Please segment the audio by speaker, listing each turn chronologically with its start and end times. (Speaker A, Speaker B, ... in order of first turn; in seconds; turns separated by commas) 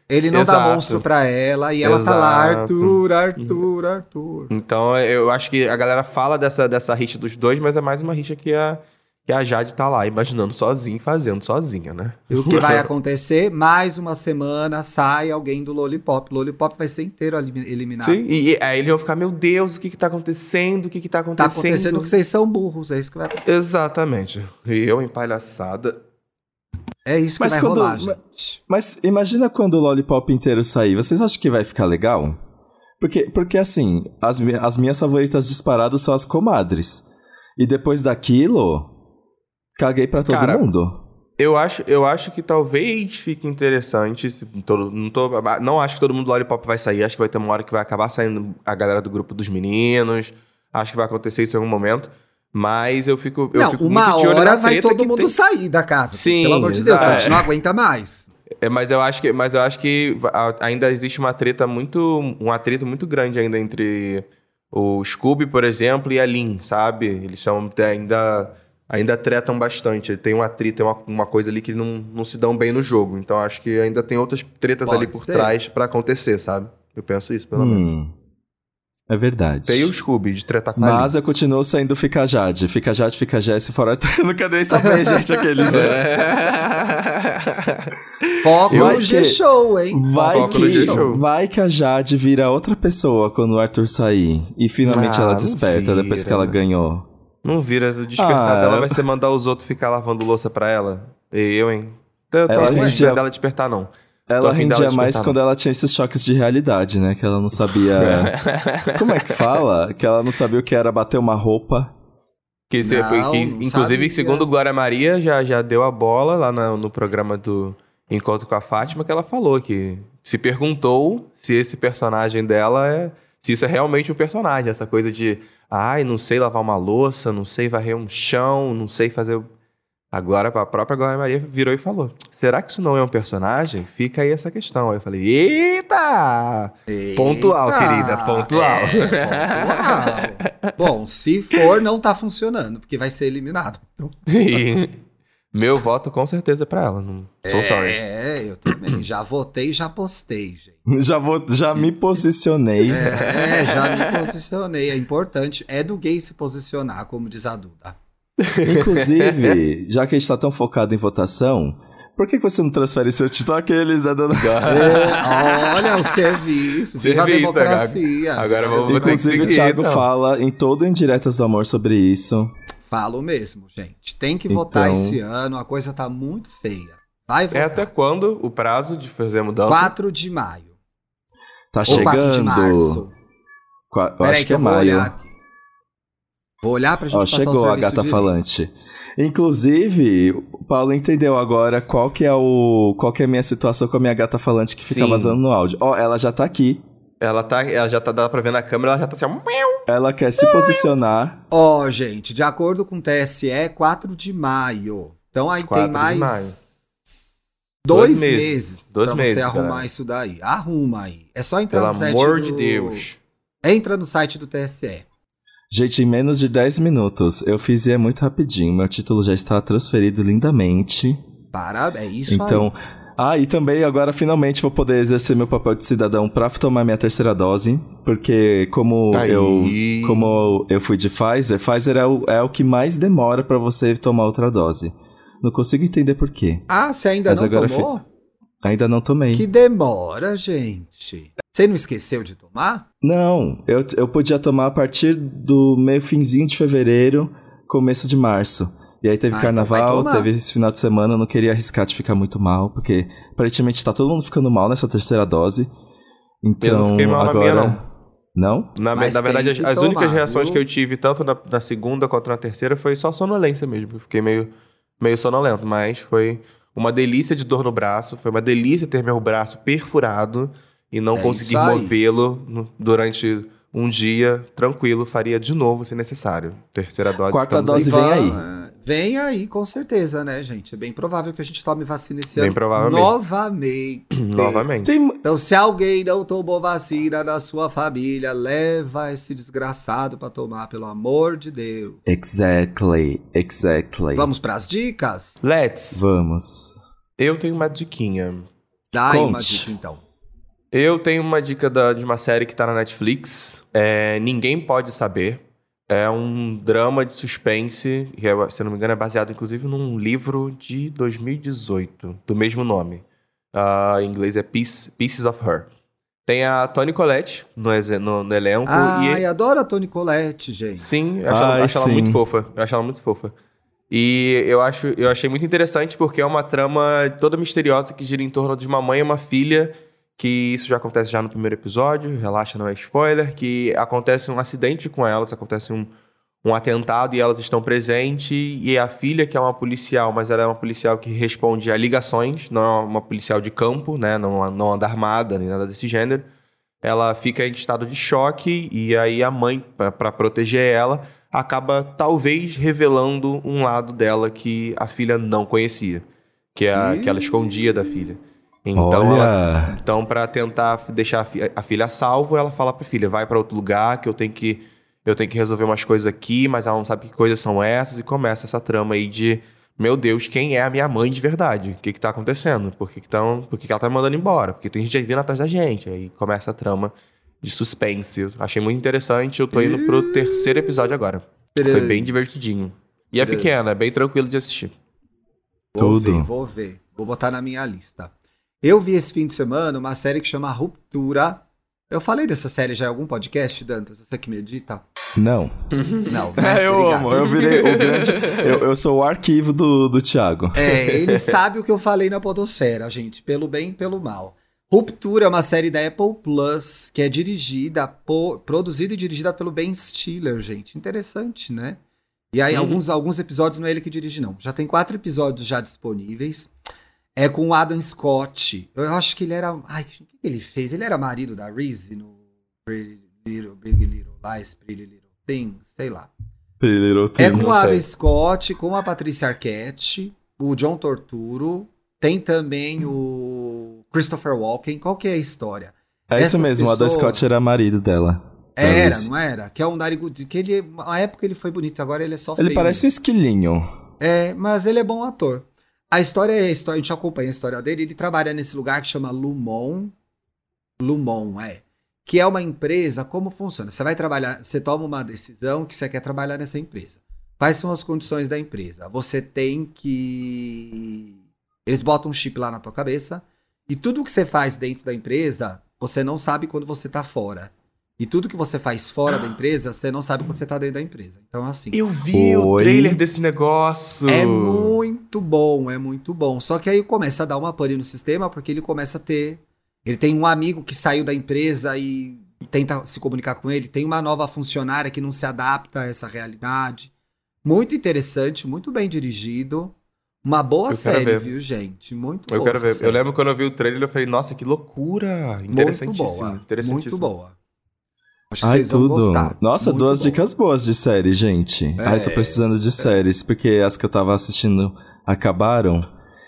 Speaker A: 0.1-4.5, Speaker B: 0.3-1.1, Speaker B: 1.8-3.6, Speaker B: 4.5-12.9, Speaker A: 12.3-18.2, Speaker B: 18.0-22.1, Speaker A: 21.4-23.4, Speaker B: 23.5-26.0, Speaker A: 27.1-28.6, Speaker C: 27.4-28.2, Speaker C: 28.7-32.4, Speaker C: 33.0-37.0, Speaker C: 37.6-38.9, Speaker C: 39.8-41.0, Speaker B: 40.3-40.7, Speaker B: 41.4-55.4, Speaker A: 53.5-58.3, Speaker B: 56.1-57.5, Speaker C: 57.0-57.4, Speaker B: 58.6-77.9, Speaker A: 74.8-75.5, Speaker C: 77.5-78.1, Speaker C: 79.1-79.9, Speaker B: 79.7-81.1, Speaker C: 80.8-86.0, Speaker B: 85.7-89.0, Speaker A: 88.4-91.1, Speaker C: 88.7-97.1, Speaker B: 90.2-91.2, Speaker B: 94.9-96.6, Speaker B: 97.4-105.4, Speaker C: 98.2-99.0, Speaker C: 102.5-103.2, Speaker A: 102.5-103.1, Speaker C: 104.3-108.3, Speaker B: 108.0-109.6, Speaker C: 108.9-111.9, Speaker B: 112.7-129.5, Speaker A: 112.8-114.5, Speaker B: 130.1-140.7, Speaker A: 136.9-144.1, Speaker B: 144.3-145.0, Speaker B: 145.5-148.0, Speaker A: 147.5-150.8, Speaker C: 150.9-153.2, Speaker A: 152.9-158.0, Speaker B: 153.2-154.2, Speaker B: 158.4-159.6, Speaker C: 158.6-165.1, Speaker B: 164.3-166.3, Speaker A: 164.7-169.6, Speaker B: 166.9-170.1, Speaker C: 168.7-172.5, Speaker A: 172.8-177.9, Speaker C: 174.5-175.2, Speaker B: 177.5-179.9, Speaker A: 179.7-180.7, Speaker C: 181.7-183.0, Speaker B: 181.9-182.2, Speaker A: 181.9-183.1, Speaker C: 183.9-185.1, Speaker A: 184.2-185.3, Speaker A: 186.6-188.3, Speaker C: 187.1-196.8, Speaker B: 194.9-195.4, Speaker B: 197.2-199.8, Speaker C: 199.9-201.4, Speaker A: 201.5-206.6, Speaker B: 205.7-206.6, Speaker A: 207.8-213.0, Speaker B: 207.9-209.9, Speaker B: 211.7-213.2, Speaker A: 213.6-215.1, Speaker C: 215.7-221.2, Speaker A: 221.5-222.7, Speaker C: 222.3-236.7, Speaker B: 229.1-230.3, Speaker A: 236.7-238.0, Speaker C: 237.3-237.9, Speaker C: 238.6-239.5, Speaker A: 239.3-242.8, Speaker C: 243.0-255.7, Speaker A: 249.3-250.3, Speaker C: 256.4-257.8, Speaker B: 256.6-257.8, Speaker C: 258.4-258.7, Speaker B: 258.8-278.3, Speaker A: 258.9-260.6, Speaker A: 271.1-272.0, Speaker C: 277.3-278.4, Speaker A: 277.7-284.7, Speaker B: 282.4-283.1, Speaker B: 284.1-284.9, Speaker C: 284.8-285.2, Speaker A: 285.2-292.0, Speaker C: 292.1-294.3, Speaker A: 294.1-295.4, Speaker B: 295.4-296.0, Speaker C: 295.9-296.8, Speaker B: 297.2-298.5, Speaker A: 298.9-300.0, Speaker C: 299.1-299.7, Speaker B: 300.7-315.7, Speaker B: 316.3-319.2, Speaker A: 318.7-320.9, Speaker B: 320.8-323.3, Speaker C: 321.3-322.2, Speaker B: 323.9-335.9, Speaker B: 336.4-346.3, Speaker B: 346.8-384.8, Speaker A: 356.8-357.7, Speaker C: 358.8-359.8, Speaker A: 379.5-380.9, Speaker A: 381.6-382.1, Speaker A: 383.2-383.5, Speaker A: 385.7-394.8, Speaker C: 385.8-386.3, Speaker C: 395.2-395.5, Speaker B: 395.8-396.1, Speaker A: 396.1-397.2, Speaker C: 396.4-400.7, Speaker B: 397.2-398.5, Speaker A: 400.6-411.8, Speaker B: 400.9-401.3, Speaker A: 412.3-416.5, Speaker B: 412.5-412.8, Speaker A: 417.2-426.1, Speaker C: 426.6-427.8, Speaker A: 427.2-437.3, Speaker C: 436.1-439.1, Speaker A: 438.6-442.8, Speaker C: 442.4-443.6, Speaker A: 444.0-449.9, Speaker A: 450.8-471.8, Speaker B: 471.7-474.7, Speaker C: 472.1-473.0, Speaker A: 474.1-486.9, Speaker A: 487.4-493.0, Speaker B: 490.7-491.3, Speaker B: 492.3-497.1, Speaker A: 495.5-497.4, Speaker A: 498.3-500.2, Speaker C: 498.4-505.9, Speaker A: 501.8-502.4